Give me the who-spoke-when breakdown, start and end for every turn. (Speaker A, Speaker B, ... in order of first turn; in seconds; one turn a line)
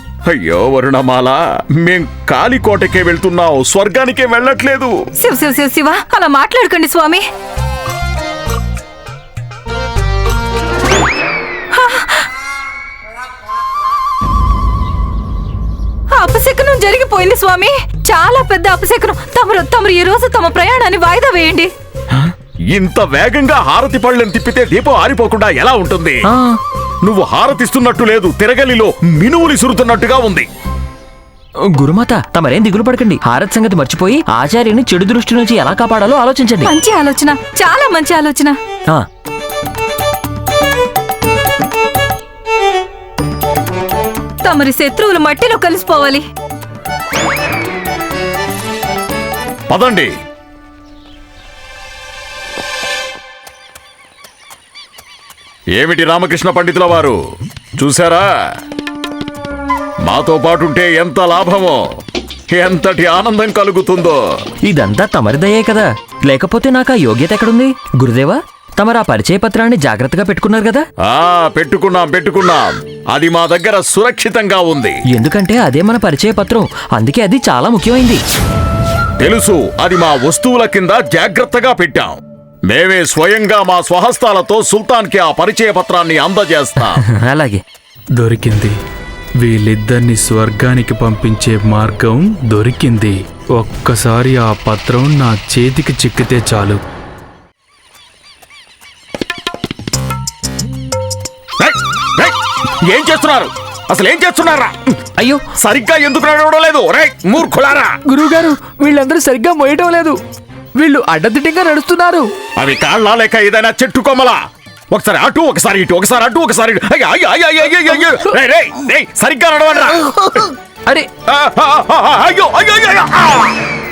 Speaker A: 0.3-4.9
Speaker B: 5.2-7.2
Speaker B: 11.8-12.2
Speaker B: 16.1-21.7
Speaker A: 22.7-26.2
Speaker C: 26.3-26.6
Speaker A: 27.1-30.5
Speaker C: 31.8-36.7
Speaker B: 36.6-38.6
Speaker B: 44.4-46.2
Speaker A: 49.7-50.1
Speaker A: 55.8-57.2
Speaker A: 57.8-58.2
Speaker A: 60.1-61.8
Speaker A: 62.5-64.2
Speaker C: 64.7-70.8
Speaker A: 71.1-75.0
Speaker C: 75.1-78.2
Speaker A: 79.2-87.0
Speaker C: 86.9-87.6
Speaker D: 88.2-88.7
Speaker D: 89.4-96.8
Speaker A: 101.6-104.8
Speaker C: 105.2-105.4
Speaker A: 105.6-108.0
Speaker E: 108.1-110.2
Speaker E: 110.8-112.3
Speaker A: 112.6-114.4
Speaker A: 114.9-120.5
Speaker A: 121.3-123.6